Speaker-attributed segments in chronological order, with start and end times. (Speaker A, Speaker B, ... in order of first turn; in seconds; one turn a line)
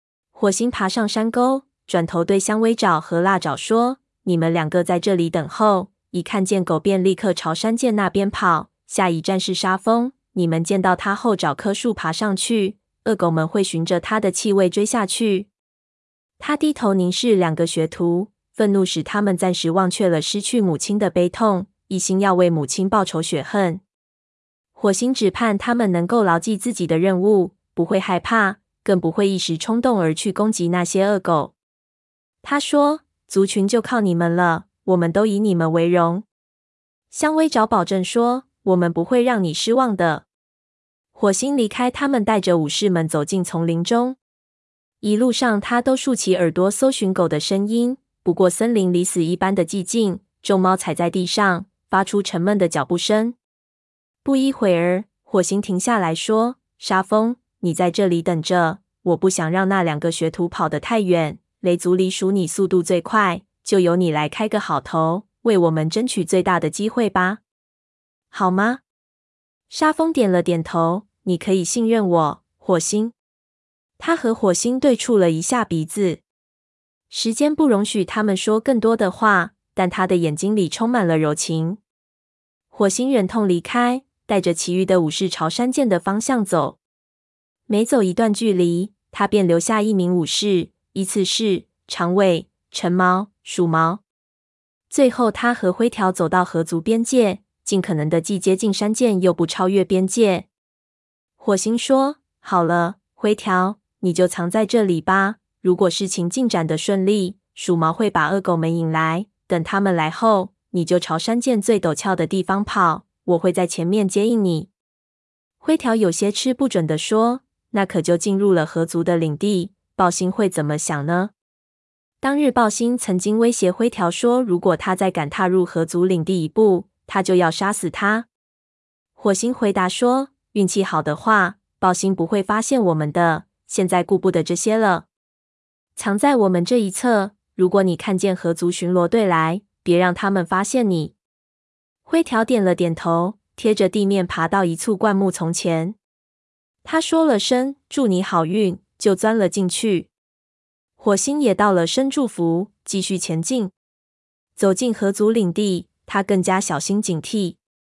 Speaker A: 0.3-15.5
Speaker A: 16.4-23.8
Speaker A: 24.7-31.5
Speaker A: 32.4-36.2
Speaker A: 37.1-40.2
Speaker A: 41.1-44.2
Speaker A: 45.0-53.4
Speaker A: 54.2-67.4
Speaker A: 68.3-68.8
Speaker A: 69.7-73.1
Speaker A: 74.0-76.2
Speaker A: 77.1-81.8
Speaker A: 82.7-86.8
Speaker A: 87.7-94.0
Speaker A: 94.9-100.5
Speaker A: 101.4-114.7
Speaker A: 115.6-121.3
Speaker A: 122.2-128.3
Speaker A: 129.2-135.1
Speaker A: 135.9-141.1
Speaker A: 142.0-145.9
Speaker A: 146.8-150.1
Speaker A: 151.0-153.7
Speaker A: 154.6-157.6